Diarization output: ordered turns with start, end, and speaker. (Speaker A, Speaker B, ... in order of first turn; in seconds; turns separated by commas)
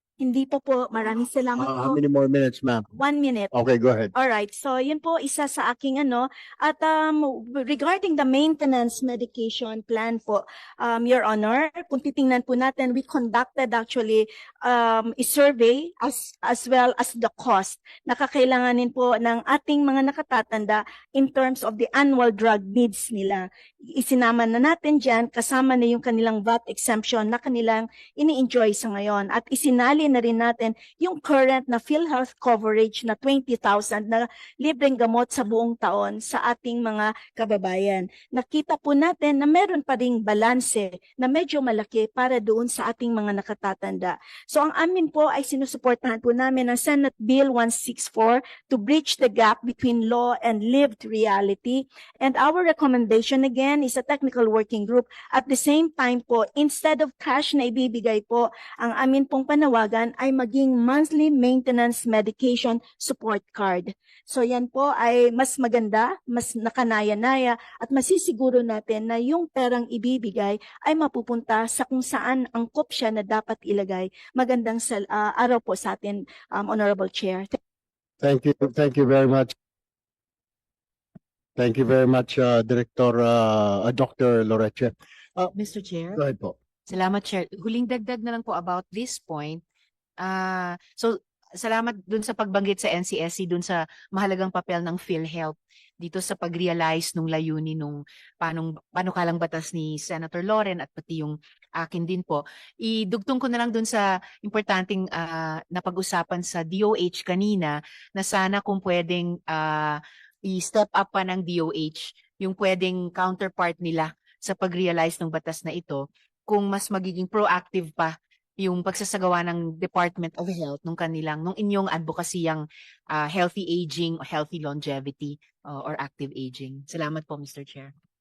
Speaker A: 0.2-2.0, Speaker B: 1.6-2.9, Speaker A: 2.9-3.5, Speaker B: 3.5-4.1, Speaker A: 4.1-77.5, Speaker B: 78.2-79.5, Speaker B: 81.5-85.5, Speaker C: 85.5-86.2, Speaker B: 86.2-86.5, Speaker C: 86.9-89.6, Speaker C: 90.2-127.9